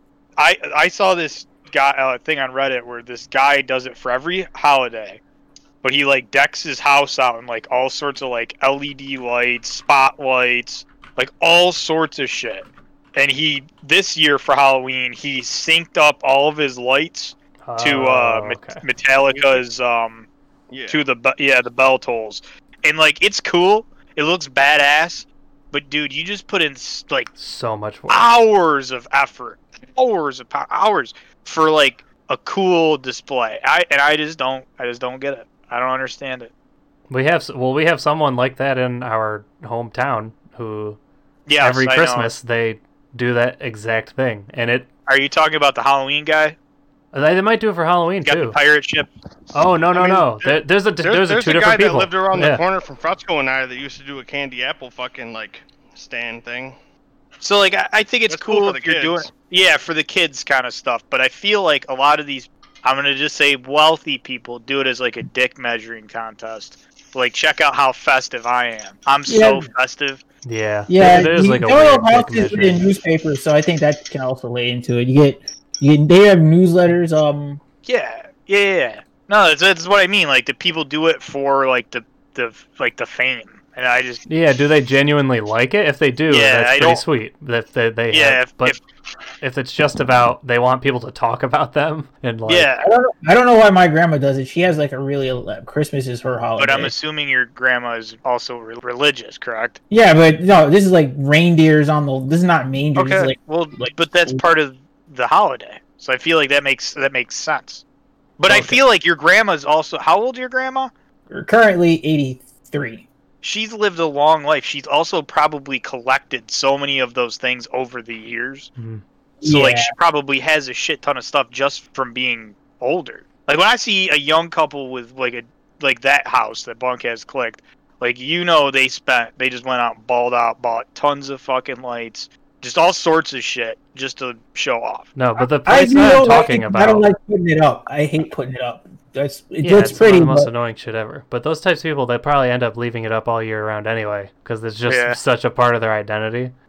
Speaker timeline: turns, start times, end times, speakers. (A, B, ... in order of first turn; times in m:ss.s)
0:00.4-0:05.2 A
0:05.8-0:20.3 A
0:17.6-0:18.8 B
0:20.7-0:21.0 C
0:20.9-0:27.3 A
0:27.4-0:28.3 B
0:28.1-0:36.5 A
0:37.1-0:41.0 B
0:41.5-0:42.3 A
0:41.6-0:44.9 B
0:45.1-0:46.6 A
0:47.1-0:48.6 B
0:48.2-0:49.1 A
0:49.5-0:52.6 B
0:49.9-0:56.8 C
0:57.4-1:10.2 A
0:58.3-0:59.3 C
1:09.3-1:09.7 D
1:10.4-1:12.9 B
1:10.9-1:17.6 D
1:17.8-1:24.2 A
1:24.3-1:28.8 B
1:26.3-1:27.0 A
1:28.1-1:28.8 A
1:29.4-1:32.7 B
1:32.5-1:32.9 A
1:32.8-1:36.9 D
1:36.6-1:39.8 A
1:39.9-1:44.4 D
1:43.0-1:47.8 A
1:48.4-1:50.9 A
1:48.5-1:48.8 B
1:51.3-1:53.0 D
1:53.4-1:58.7 A
1:58.8-1:59.0 B
1:59.4-1:59.9 D
1:59.4-2:15.1 A
2:15.1-2:17.1 B
2:15.6-2:20.5 D
2:19.6-2:26.5 B
2:24.8-2:25.2 A